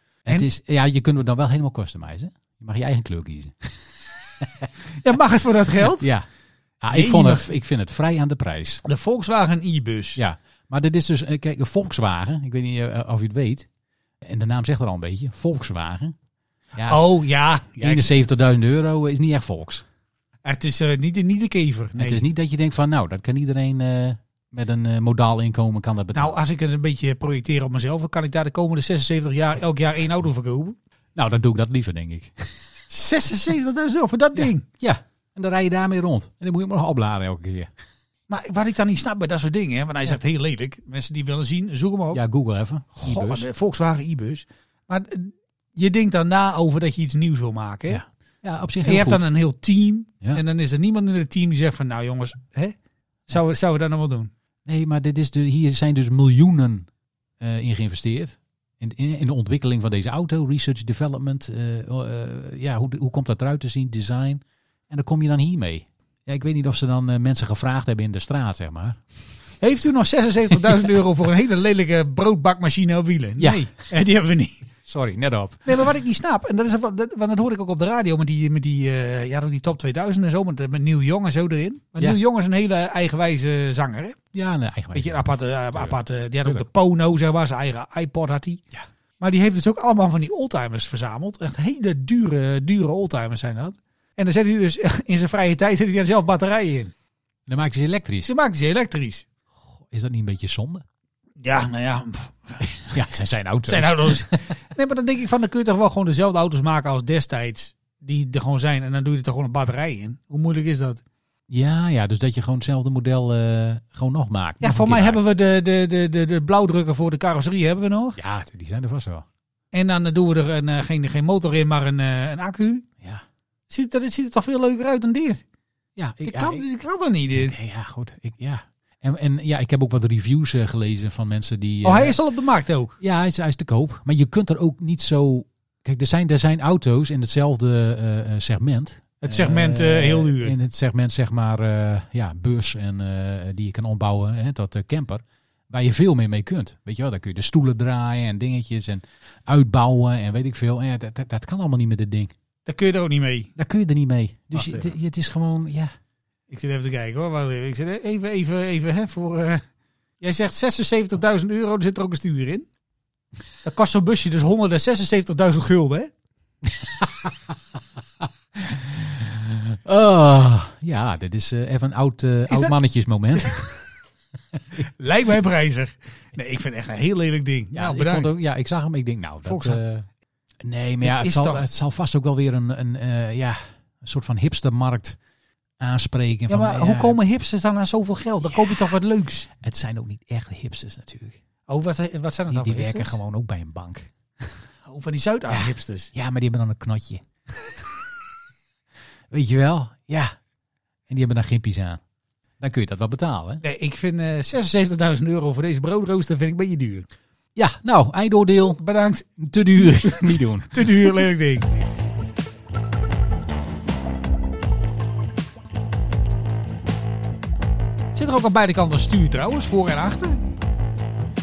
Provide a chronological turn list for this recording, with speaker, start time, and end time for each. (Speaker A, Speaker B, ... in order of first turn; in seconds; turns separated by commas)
Speaker A: 0.2-3.7, Speaker A: 4.4-4.7, Speaker B: 5.0-6.1, Speaker A: 6.0-6.3, Speaker A: 6.8-8.8, Speaker B: 6.9-7.5, Speaker B: 8.8-10.2, Speaker A: 10.2-13.7, Speaker A: 14.2-16.1, Speaker A: 16.7-17.1, Speaker B: 16.9-18.1, Speaker A: 17.8-19.8, Speaker B: 20.4-22.2, Speaker A: 22.0-26.4, Speaker B: 26.1-30.8, Speaker A: 31.1-32.5, Speaker B: 32.9-34.6, Speaker A: 34.4-37.7, Speaker B: 38.3-42.2, Speaker A: 42.1-43.5, Speaker B: 43.0-48.0, Speaker A: 47.9-49.2, Speaker B: 48.8-52.8, Speaker B: 53.3-54.3, Speaker A: 54.6-56.9, Speaker A: 57.4-69.0, Speaker B: 69.6-74.6, Speaker A: 73.4-73.7, Speaker A: 74.8-75.7, Speaker B: 75.7-84.2, Speaker A: 84.3-86.6, Speaker B: 84.9-88.6, Speaker B: 89.2-96.9, Speaker A: 97.5-98.3, Speaker B: 98.3-99.2, Speaker A: 99.8-100.8, Speaker B: 101.4-103.0, Speaker A: 102.8-104.4, Speaker B: 103.7-111.0, Speaker A: 111.5-115.2, Speaker B: 114.6-118.2, Speaker A: 118.2-119.2, Speaker B: 119.7-122.8, Speaker B: 123.7-125.4, Speaker A: 126.0-126.6, Speaker B: 126.2-127.5, Speaker A: 127.3-132.2, Speaker B: 131.8-132.9, Speaker A: 133.0-152.3, Speaker B: 139.2-140.5, Speaker B: 152.7-153.5, Speaker A: 153.6-155.9, Speaker B: 154.5-154.9, Speaker B: 156.5-159.6, Speaker B: 160.2-162.7, Speaker B: 163.6-166.1, Speaker A: 166.7-167.3, Speaker A: 168.6-173.8, Speaker B: 172.5-172.7, Speaker B: 173.3-173.6, Speaker B: 174.8-178.3, Speaker A: 177.7-180.1, Speaker B: 179.4-179.8, Speaker A: 180.6-185.2, Speaker B: 181.0-181.7, Speaker A: 185.8-187.2, Speaker B: 186.5-189.5, Speaker A: 189.6-191.4, Speaker B: 191.7-193.2, Speaker A: 192.5-194.1, Speaker B: 194.8-196.1, Speaker A: 195.5-197.2, Speaker A: 199.3-200.3, Speaker A: 201.1-202.0, Speaker A: 202.6-203.6, Speaker B: 203.6-207.1, Speaker A: 207.6-208.8, Speaker B: 208.8-211.7, Speaker A: 209.4-211.2, Speaker B: 218.1-220.4